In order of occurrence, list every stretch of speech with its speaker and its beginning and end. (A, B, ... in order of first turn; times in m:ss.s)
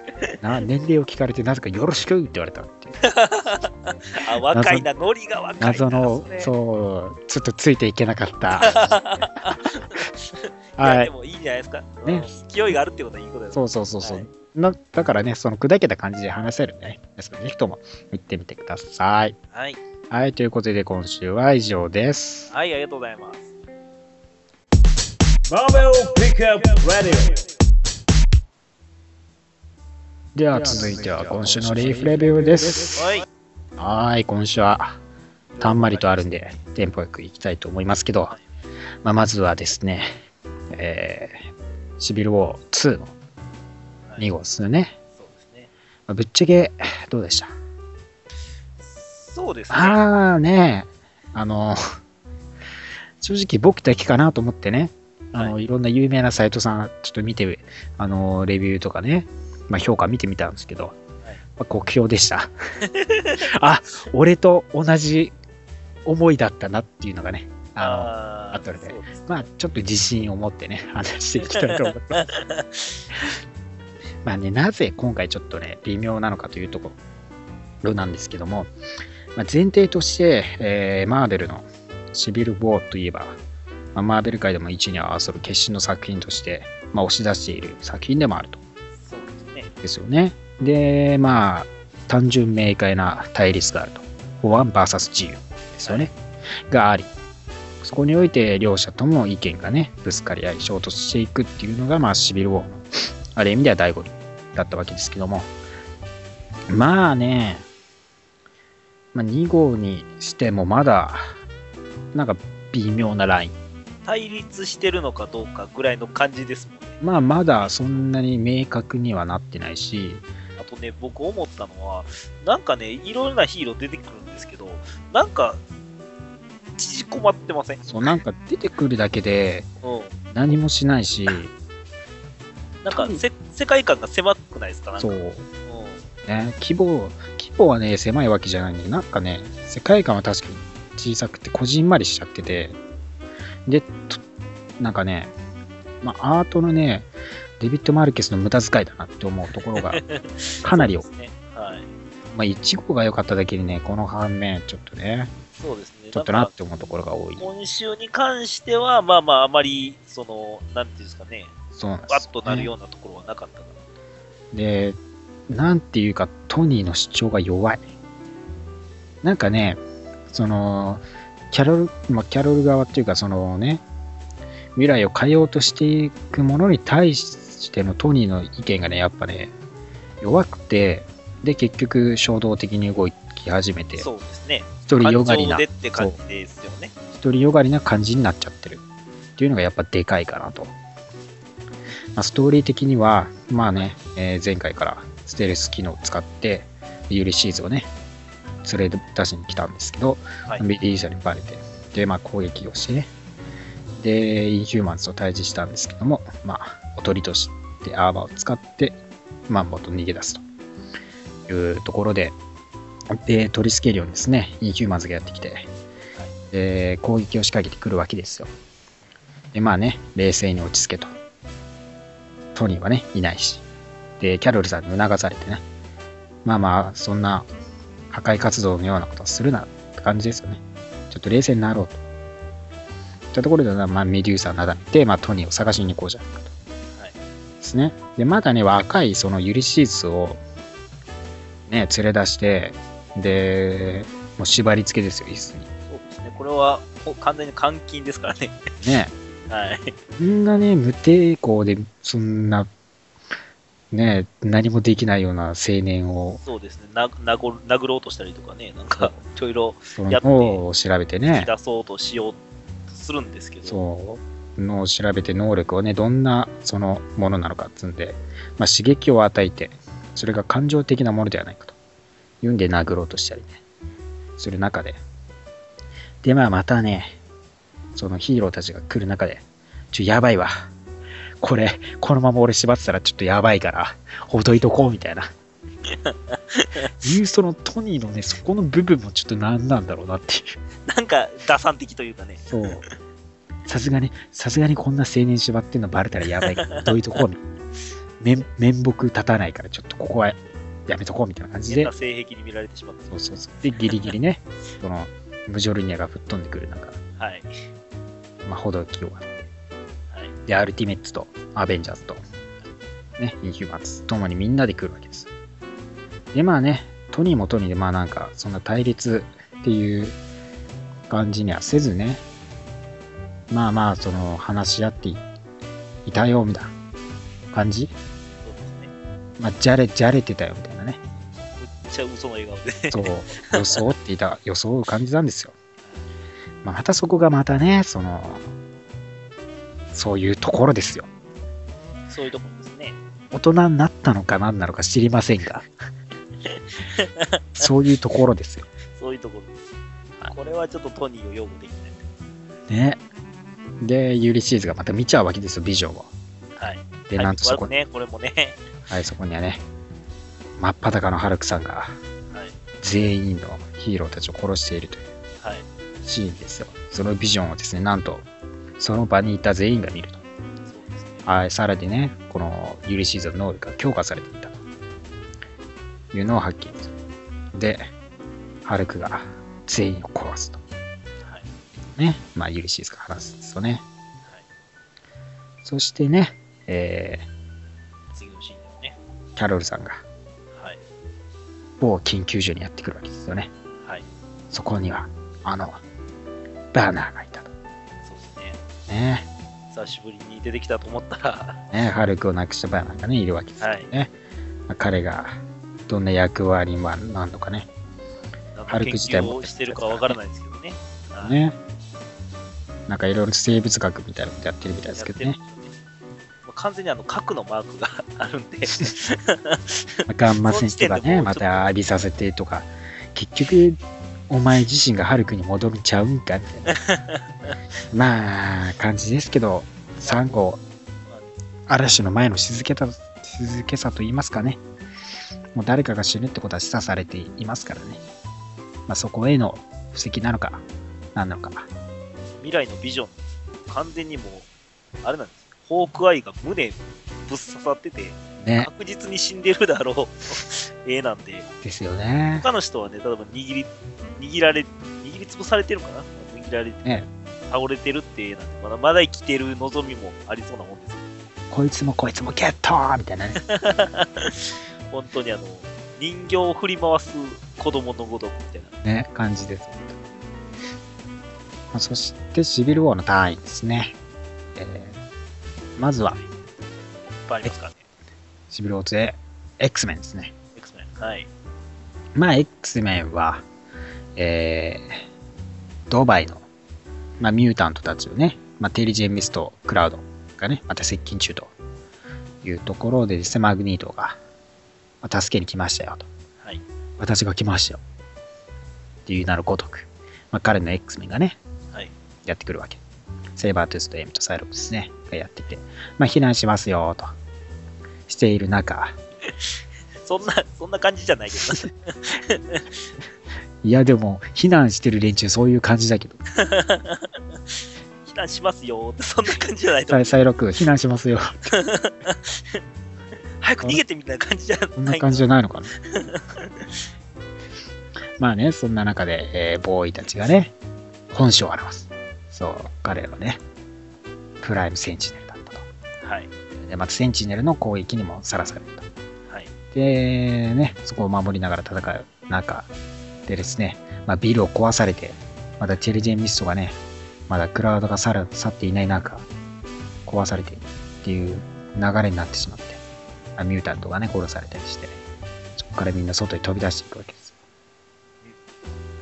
0:00.4-0:03.0 A
0:03.0-0:06.5 B
0:04.5-0:04.9 A
0:05.6-0:10.0 A
0:08.6-0:14.3 B
0:10.8-0:11.1 A
0:12.1-0:12.3 A
0:13.5-0:19.4 A
0:19.5-0:19.8 B
0:20.1-0:22.5 A
0:22.5-0:23.5 B
0:25.5-0:27.4 C
0:30.4-0:33.0 A
0:33.0-0:33.3 B
0:33.8-0:35.0 A
0:35.6-0:36.6 B
0:35.6-0:38.4 A
0:39.0-0:40.1 A
0:40.7-0:43.1 A
0:44.2-0:45.0 A
0:45.2-0:45.7 B
0:46.1-0:47.5 A
0:48.9-0:50.0 B
0:49.7-0:51.8 A
0:53.2-1:01.0 A
1:01.6-1:02.5 A
1:02.8-1:03.5 B
1:03.4-1:05.3 A
1:06.0-1:12.2 A
1:07.8-1:09.4 B
1:11.4-1:13.0 B
1:14.2-1:17.0 A
1:17.8-1:18.7 A
1:19.4-1:23.4 A
1:24.0-1:28.6 A
1:29.0-1:29.7 B
1:29.8-1:36.1 A
1:35.8-1:36.1 B
1:36.7-1:37.1 A
1:37.8-1:45.5 A
1:46.7-1:47.7 A
1:49.1-1:51.3 A
1:52.1-1:53.6 A
1:54.0-1:57.9 B
1:57.0-2:00.3 A
2:00.6-2:05.6 B
2:06.8-2:08.2 B
2:07.8-2:09.7 A
2:09.8-2:10.2 B
2:10.3-2:11.5 A
2:12.8-2:16.0 B
2:12.9-2:13.2 A
2:15.0-2:15.5 A
2:16.3-2:22.8 A
2:23.7-2:24.2 A
2:24.8-2:25.3 A
2:26.0-2:27.1 A
2:27.6-2:30.0 A
2:29.8-2:31.9 B
2:30.6-2:31.1 A
2:32.3-2:35.3 A
2:35.6-2:36.5 B
2:36.1-2:37.5 A
2:37.4-2:41.5 B
2:41.8-2:42.7 A
2:42.1-2:43.8 B
2:44.5-2:45.0 A
2:45.5-2:47.8 A
2:49.2-2:49.8 A
2:50.3-2:53.8 A
2:54.8-2:59.5 A
3:00.2-3:04.1 A
3:04.0-3:06.9 B
3:04.9-3:06.2 A
3:07.1-3:08.8 A
3:09.4-3:10.7 A
3:12.2-3:17.9 A
3:18.6-3:23.1 A
3:24.0-3:29.0 A
3:29.5-3:30.4 A
3:31.5-3:32.4 A
3:33.1-3:35.7 A
3:36.5-3:38.5 A
3:39.5-3:41.1 A
3:42.6-3:43.6 A
3:44.2-3:45.6 A
3:46.4-3:47.5 A
3:48.1-3:52.0 A
3:53.3-3:56.5 A
3:57.6-4:00.4 A
4:01.7-4:05.7 A
4:05.9-4:08.7 B
4:08.8-4:09.1 A
4:09.5-4:09.9 B
4:10.2-4:12.7 A
4:13.9-4:16.4 A
4:16.4-4:20.6 B
4:20.0-4:21.5 A
4:21.3-4:22.4 B
4:22.9-4:23.8 B
4:23.6-4:31.8 A
4:32.4-4:33.6 A
4:34.4-4:35.0 A
4:36.2-4:37.2 A
4:38.0-4:40.7 A
4:41.4-4:45.3 A
4:45.9-4:46.9 B
4:47.0-4:50.6 A
4:50.9-4:52.8 B
4:52.5-4:52.8 A
4:53.7-4:57.4 A
4:56.4-4:56.9 B
4:58.2-5:01.9 A
5:01.7-5:03.2 B
5:03.1-5:07.0 A
5:03.8-5:04.1 B
5:07.2-5:07.5 B
5:08.4-5:09.5 A
5:10.5-5:12.2 A
5:13.2-5:15.3 A
5:16.3-5:20.2 A
5:21.1-5:22.2 A
5:23.5-5:25.2 A
5:26.1-5:26.7 A
5:27.5-5:27.9 A
5:28.4-5:28.9 B
5:29.4-5:31.0 A
5:31.6-5:33.8 B
5:32.9-5:35.5 A
5:36.6-5:38.5 A
5:39.9-5:41.1 A
5:42.1-5:43.0 B
5:43.3-5:45.7 A
5:46.4-5:47.7 B
5:47.6-5:48.7 A
5:48.9-5:49.5 B
5:50.2-5:52.0 B
5:52.7-5:53.0 A
5:53.8-5:56.1 A
5:56.6-5:58.6 B
5:57.1-5:57.7 A
5:58.9-5:59.6 A
6:00.6-6:02.0 A
6:02.8-6:05.1 A
6:06.0-6:08.3 A
6:08.8-6:10.2 A
6:10.7-6:11.2 B
6:11.2-6:14.6 A
6:16.1-6:16.9 A
6:17.5-6:17.9 A
6:18.6-6:20.6 A
6:22.0-6:23.8 A
6:25.6-6:27.3 A
6:28.1-6:29.0 B
6:29.4-6:30.0 A
6:30.5-6:30.8 B
6:31.8-6:33.5 A
6:34.5-6:35.8 A
6:36.7-6:37.5 A
6:38.0-6:38.6 B
6:38.9-6:39.3 A
6:39.7-6:41.6 B
6:41.7-6:44.1 A
6:43.6-6:43.9 B
6:44.7-6:45.4 A
6:45.9-6:47.7 A
6:48.5-6:51.4 B
6:48.7-6:50.2 A
6:51.2-6:51.6 A
6:52.9-6:55.4 A
6:55.0-6:55.7 B
6:56.5-7:01.7 B
7:00.1-7:06.8 A
7:06.7-7:07.6 B
7:07.9-7:10.6 A
7:11.7-7:14.6 A
7:15.6-7:18.0 A
7:18.9-7:20.6 A
7:21.2-7:21.7 A
7:22.4-7:24.5 B
7:25.0-7:31.5 B
7:28.4-7:28.7 A
7:31.6-7:32.5 A
7:32.4-7:36.8 B
7:37.5-7:41.1 B
7:41.5-7:43.4 A
7:43.4-7:48.7 B
7:48.8-7:50.0 A
7:51.7-7:54.0 A
7:54.6-7:55.0 A
7:55.8-7:56.2 A
7:57.3-7:57.8 B
7:58.5-8:00.3 A
8:00.6-8:01.3 B
8:02.2-8:03.4 A
8:04.2-8:05.0 A
8:05.9-8:06.5 A
8:07.2-8:11.5 A
8:12.4-8:14.2 A
8:15.0-8:16.1 A
8:17.0-8:17.8 A
8:19.1-8:21.4 A
8:22.2-8:22.8 A
8:23.4-8:27.1 A
8:28.1-8:29.0 A
8:30.0-8:32.7 B
8:33.6-8:36.2 A
8:36.4-8:37.2 B
8:38.0-8:40.2 B
8:39.9-8:41.5 A
8:41.5-8:42.6 B
8:43.4-8:45.3 B
8:44.8-8:45.7 A
8:45.8-8:46.8 B
8:48.2-8:50.5 A
8:51.1-8:53.4 A
8:54.4-8:55.6 A
8:56.0-8:56.3 B
8:56.6-8:58.9 A
8:59.7-9:02.7 A
9:03.3-9:06.8 A
9:07.3-9:09.3 A
9:10.1-9:12.8 A
9:13.4-9:15.0 A
9:15.6-9:17.3 A